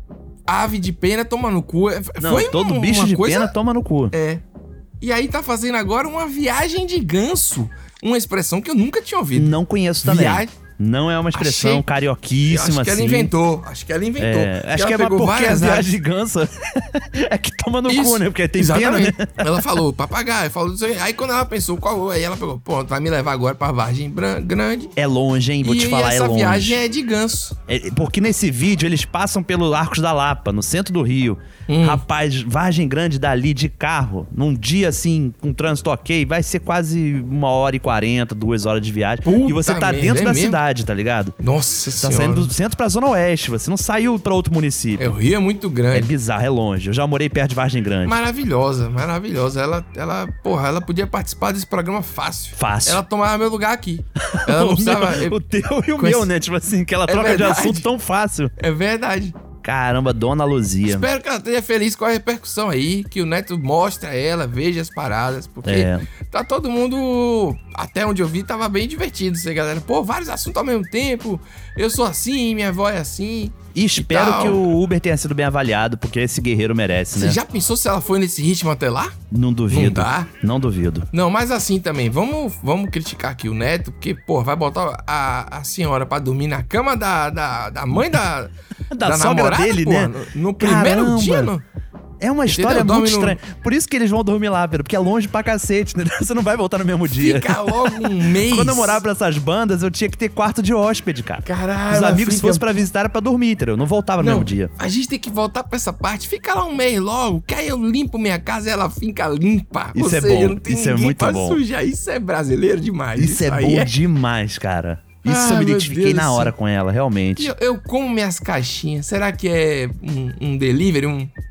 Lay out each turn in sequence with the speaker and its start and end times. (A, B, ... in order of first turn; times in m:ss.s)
0:00.5-0:03.5 A
0:02.2-0:04.1 B
0:04.1-0:04.4 A
0:05.0-0:09.5 A
0:09.3-0:13.3 B
0:10.0-0:10.5 A
0:11.3-0:11.8 A
0:12.5-0:15.9 A
0:14.2-0:19.4 B
0:17.9-0:24.9 A
0:25.0-0:26.8 B
0:25.6-0:27.6 A
0:27.7-0:41.3 B
0:31.7-0:32.0 A
0:39.2-0:40.6 A
0:41.4-0:42.5 A
0:42.0-0:45.1 B
0:45.0-0:46.1 A
0:45.9-0:48.2 B
0:48.0-0:55.4 A
0:52.5-0:53.0 B
0:54.3-0:58.5 B
0:56.0-0:56.3 A
0:57.1-0:57.8 A
0:58.6-0:59.4 A
0:59.6-1:01.1 B
1:00.9-1:14.6 A
1:05.6-1:06.0 B
1:13.7-1:17.4 B
1:17.1-1:19.1 A
1:19.3-1:21.1 B
1:19.7-1:20.3 A
1:21.1-1:28.5 A
1:28.9-1:31.5 B
1:29.0-1:31.6 A
1:32.2-1:44.7 B
1:32.5-1:33.4 A
1:37.1-1:39.0 A
1:41.4-1:42.8 A
1:44.2-1:53.9 A
1:49.9-1:51.6 B
1:53.2-1:57.5 B
1:55.2-1:56.5 A
1:57.4-2:01.3 A